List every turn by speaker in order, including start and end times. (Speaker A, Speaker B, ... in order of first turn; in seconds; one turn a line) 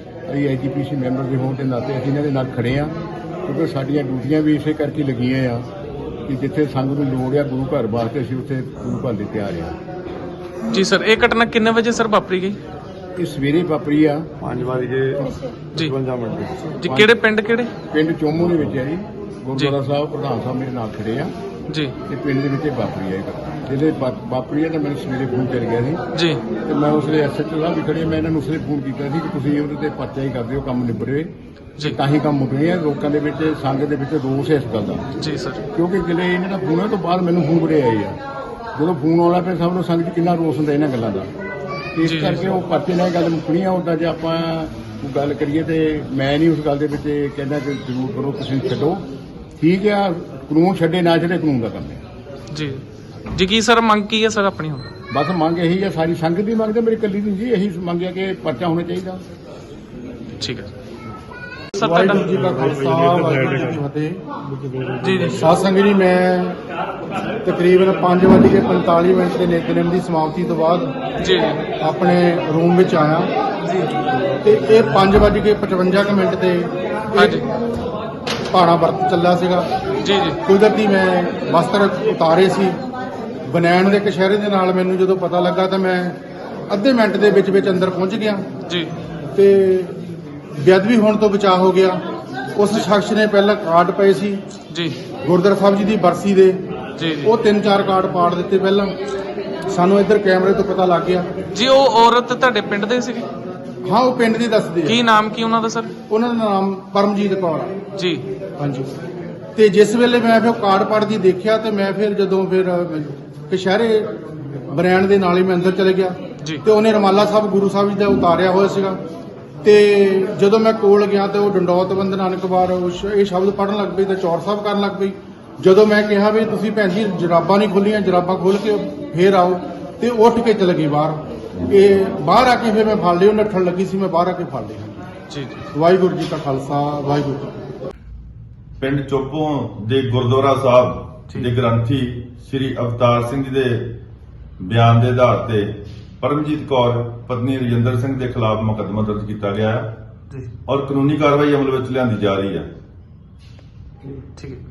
Speaker A: 0.3-5.7
Speaker A: 6.3-9.8
Speaker B: 10.7-12.6
Speaker A: 13.2-14.3
Speaker C: 14.4-16.5
Speaker B: 16.8-17.7
Speaker A: 16.8-17.1
Speaker A: 17.9-21.3
Speaker A: 22.1-26.0
Speaker B: 26.1-26.4
Speaker A: 26.6-35.1
Speaker B: 35.2-35.6
Speaker A: 35.7-38.2
Speaker A: 38.7-41.3
Speaker A: 41.9-49.0
Speaker B: 42.0-42.5
Speaker A: 49.6-52.0
Speaker B: 52.5-52.8
Speaker B: 53.3-54.9
Speaker A: 55.1-59.2
Speaker B: 60.4-60.7
Speaker B: 61.7-62.3
Speaker D: 61.8-64.2
Speaker B: 65.0-65.5
Speaker D: 65.3-66.6
Speaker D: 67.4-70.9
Speaker B: 71.2-71.6
Speaker D: 71.8-73.3
Speaker B: 73.6-73.9
Speaker D: 74.4-77.4
Speaker B: 77.2-77.5
Speaker D: 78.5-79.7
Speaker B: 80.0-80.4
Speaker D: 80.5-82.8
Speaker D: 83.5-88.4
Speaker D: 89.3-90.0
Speaker D: 90.5-92.0
Speaker D: 92.6-94.4
Speaker D: 95.2-96.6
Speaker B: 97.0-97.3
Speaker D: 97.2-98.9
Speaker D: 99.7-101.3
Speaker B: 101.5-103.3
Speaker D: 103.8-105.0
Speaker B: 104.8-105.9
Speaker D: 106.1-107.7
Speaker B: 108.0-108.2
Speaker D: 108.6-108.9
Speaker D: 109.5-114.2
Speaker D: 114.7-119.0
Speaker D: 119.6-135.0
Speaker B: 135.3-135.6
Speaker D: 135.7-137.6
Speaker E: 138.8-144.0
Speaker E: 144.6-149.9
Speaker E: 150.7-152.7
Speaker B: 154.3-154.6